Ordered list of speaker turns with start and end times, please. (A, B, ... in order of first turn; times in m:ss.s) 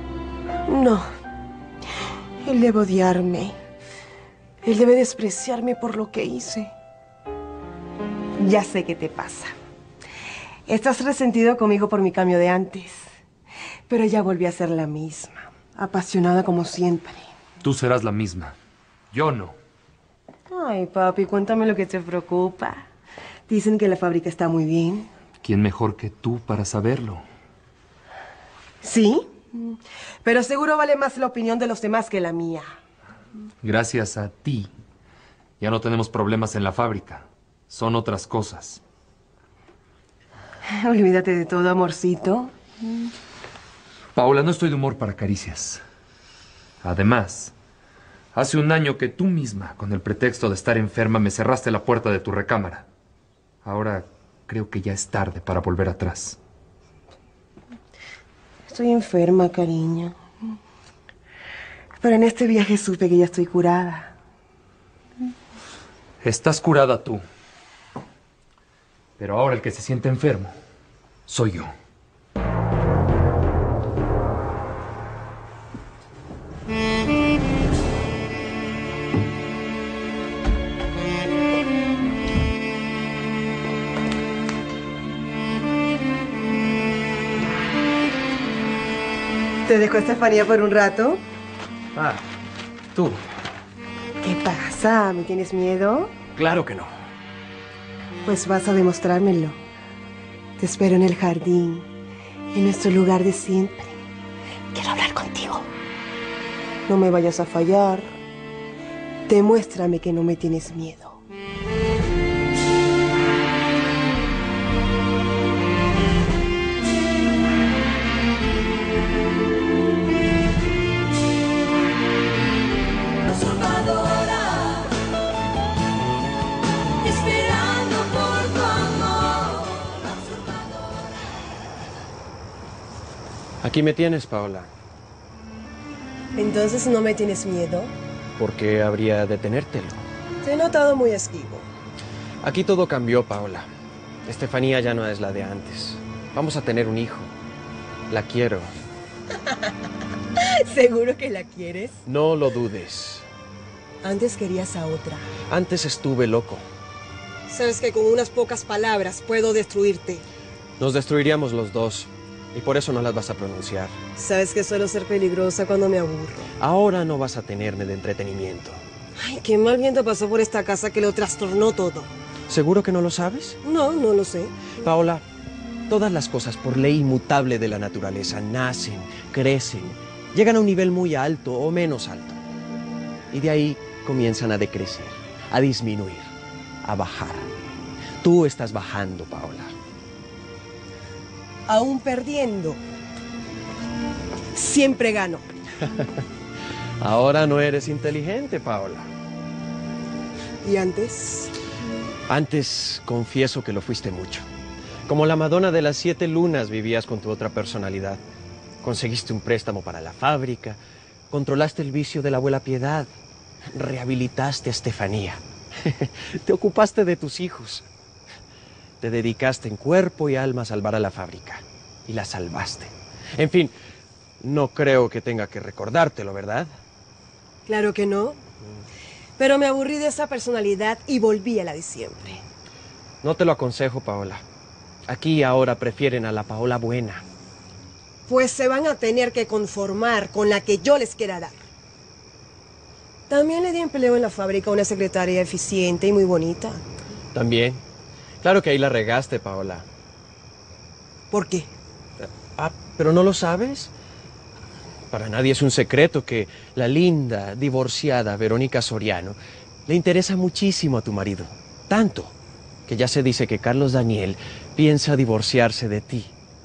0:00.6-0:01.1 A
0:02.4-0:03.6 A
0:04.6-0:06.7 A
0:08.4-0:09.5 A
0:10.7-0:13.0 A
0:13.9-0:17.2 A
0:17.6-0:18.5 B
0:19.1-0:19.6 B
0:20.5-0:22.8 A
0:23.5-0:25.1 A
0:25.4-0:27.2 B
0:28.8-0:32.7 A
0:33.6-0:34.7 B
0:35.6-0:38.8 B
0:40.6-0:42.5 A
0:44.1-0:45.8 B
0:46.8-0:47.5 B
0:48.3-0:52.8 B
0:53.6-0:56.4 B
0:58.7-1:00.2 A
1:02.0-1:04.1 A
1:06.2-1:07.2 B
1:09.2-1:10.6 B
1:11.3-1:11.7 B
1:29.7-1:31.2 A
1:31.9-1:32.2 C
1:32.9-1:33.2 C
1:34.2-1:36.1 A
1:36.4-1:36.9 C
1:38.2-1:39.6 A
1:40.6-1:41.9 A
1:42.5-1:44.0 A
1:44.7-1:45.7 A
1:46.9-1:48.1 A
1:49.3-1:51.2 A
2:13.6-2:14.7 C
2:16.4-2:17.9 A
2:18.4-2:20.0 C
2:20.4-2:21.6 A
2:22.4-2:23.7 C
2:24.2-2:27.3 C
2:28.1-2:28.7 C
2:30.4-2:32.0 A
2:32.0-2:33.2 C
2:34.0-2:35.3 A
2:35.5-2:36.6 C
2:37.5-2:40.2 A
2:40.8-2:44.0 C
2:44.2-2:46.5 A
2:46.6-2:48.8 C
2:49.2-2:52.1 A
2:52.5-2:53.6 C
2:53.6-2:54.5 A
2:54.8-2:55.2 C
2:55.9-3:02.4 C
3:03.3-3:06.3 C
3:06.8-3:07.5 C
3:08.2-3:09.7 C
3:11.7-3:12.8 A
3:14.5-3:15.4 A
3:17.0-3:19.1 C
3:20.6-3:21.5 A
3:22.3-3:24.4 C
3:25.1-3:28.2 C
3:28.8-3:30.8 C
3:31.3-3:33.1 C
3:33.7-3:37.8 C
3:39.0-3:43.7 C
3:44.4-3:46.7 C
3:47.6-3:48.4 A
3:49.4-3:52.4 A
3:53.2-3:54.4 C
3:55.1-3:57.2 C
3:58.3-4:01.6 A
4:03.3-4:06.8 A
4:07.3-4:07.8 C
4:08.4-4:09.8 C
4:11.3-4:11.7 A
4:12.2-4:13.9 C
4:15.1-4:22.3 C
4:22.9-4:26.3 C